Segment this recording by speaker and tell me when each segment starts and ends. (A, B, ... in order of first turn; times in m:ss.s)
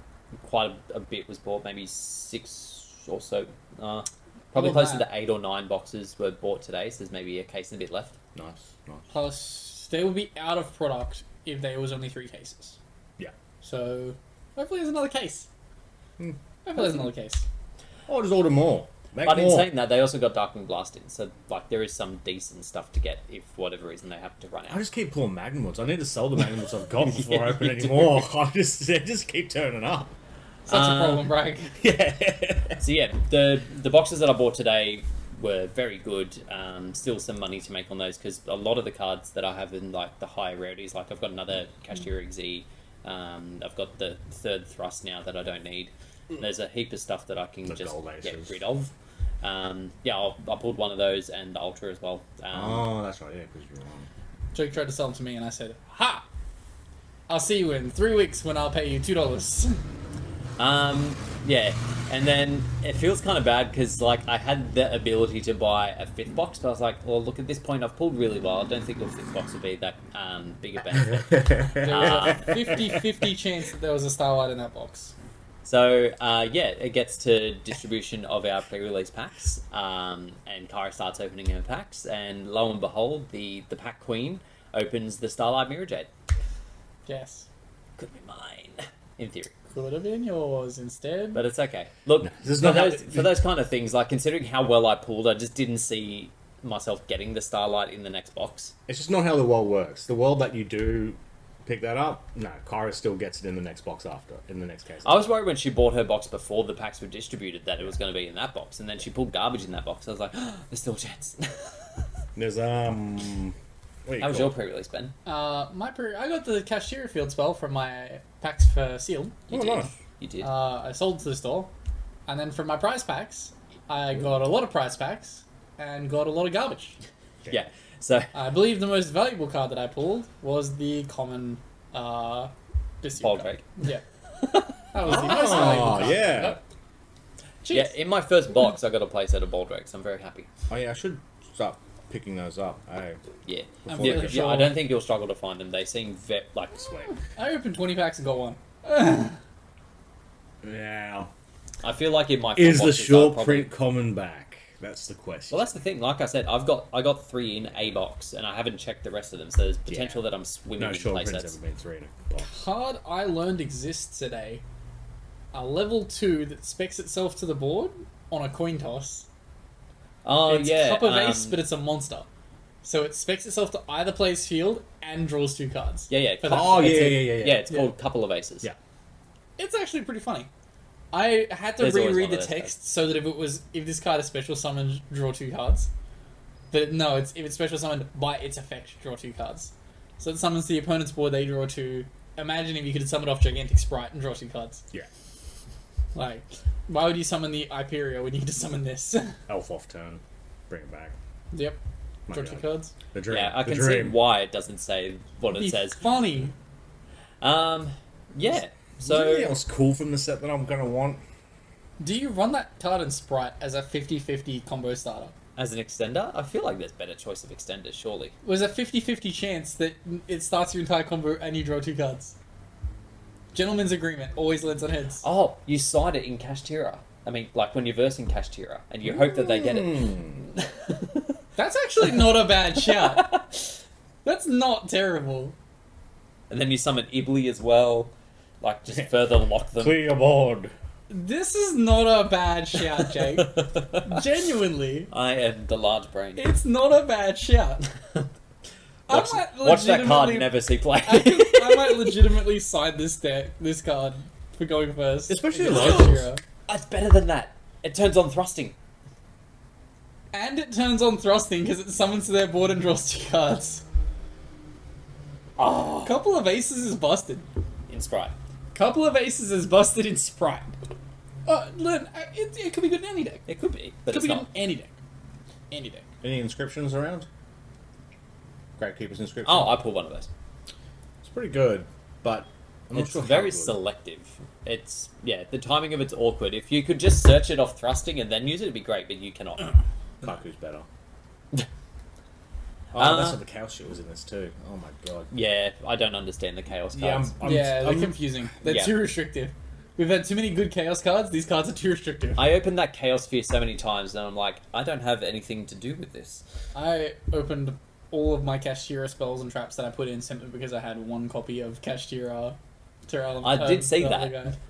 0:00.4-0:08.2 A
0:04.5-0:05.1 B
0:08.3-0:09.0 C
0:09.1-0:12.8 B
0:13.6-0:15.5 B
0:16.6-0:17.4 B
0:18.1-0:19.7 C
0:19.2-0:24.8 A
0:24.7-0:30.1 C
0:27.2-0:28.2 A
0:30.7-0:31.3 A
0:30.7-0:31.8 B
0:31.8-0:32.8 C
0:32.8-0:48.9 A
0:47.6-0:48.6 C
0:49.4-0:52.9 A
0:52.5-0:54.1 C
0:54.5-0:56.3 B
0:57.3-0:59.8 B
1:00.6-1:12.7 A
1:10.9-1:13.0 C
1:11.8-1:15.1 B
1:15.6-1:26.1 A
1:27.0-1:27.4 B
1:28.0-1:29.5 A
1:29.7-1:31.4 B
1:31.3-1:38.7 A
1:32.2-1:33.3 C
1:38.9-1:45.2 C
1:45.0-1:52.0 A
1:52.4-1:53.5 C
1:54.0-1:54.5 C
1:54.2-1:55.1 A
1:55.2-1:59.4 B
1:59.5-2:00.5 A
1:59.5-1:59.9 C
2:00.4-2:01.7 B
2:02.3-2:07.0 B
2:07.5-2:08.3 A
2:08.3-2:12.5 B
2:13.0-2:14.0 B
2:13.2-2:13.7 A
2:14.4-2:14.7 A
2:14.9-2:16.6 B
2:15.0-2:16.6 C
2:15.5-2:15.9 A
2:17.6-2:17.9 B
2:17.7-2:20.5 A
2:20.7-2:23.2 C
2:23.4-2:27.1 A
2:23.8-2:24.4 C
2:23.9-2:24.7 B
2:27.3-2:29.4 B
2:30.6-2:31.3 C
2:31.8-2:33.7 A
2:32.6-2:35.7 C
2:35.5-2:41.5 A
2:39.9-2:40.2 C
2:40.8-2:42.5 C
2:42.4-2:44.6 B
2:45.5-2:49.3 B
2:50.2-2:51.6 A
2:50.5-2:52.3 B
2:52.8-2:57.9 B
2:56.1-2:58.7 A
2:56.5-2:57.6 C
2:59.6-3:00.5 B
3:01.1-3:05.9 B
3:01.8-3:02.7 A
3:06.7-3:14.8 B
3:16.1-3:19.4 B
3:19.5-3:21.2 C
3:21.5-3:21.8 B
3:22.3-3:24.2 C
3:22.3-3:22.9 B
3:23.3-3:26.0 A
3:25.5-3:26.5 B
3:27.4-3:29.5 A
3:29.0-3:31.2 C
3:32.0-3:35.3 B
3:35.6-3:38.3 A
3:38.4-3:42.3 B
3:43.5-3:45.2 B
3:45.2-3:51.3 A
3:49.1-3:50.4 C
3:51.6-3:53.5 B
3:52.9-3:53.4 A
3:54.2-3:55.6 B
3:56.5-4:00.0 A
3:59.8-4:00.7 C
4:01.1-4:05.1 B
4:03.0-4:04.2 A
4:05.1-4:06.4 A
4:06.4-4:07.9 B
4:09.1-4:16.4 B
4:09.1-4:12.2 A
4:15.3-4:16.3 C
4:15.6-4:16.0 A
4:16.7-4:18.8 A
4:20.3-4:23.8 B
4:25.6-4:26.1 A
4:26.0-4:27.5 B
4:27.9-4:28.3 A
4:28.7-4:30.8 B
4:31.4-4:33.4 B
4:33.5-4:34.5 A
4:34.1-4:34.9 B
4:35.7-4:36.1 B
4:36.2-4:37.3 C
4:38.8-4:39.8 C
4:39.4-4:40.3 A
4:41.2-4:43.8 C
4:42.9-4:49.7 A
4:50.2-4:50.9 C
4:52.9-4:55.3 C
4:52.9-4:53.4 A
4:55.3-4:57.3 A
4:56.9-4:58.2 C
4:57.4-5:02.4 B
4:58.6-4:58.9 A
5:02.4-5:06.4 A
5:06.7-5:14.6 B
5:13.4-5:14.4 A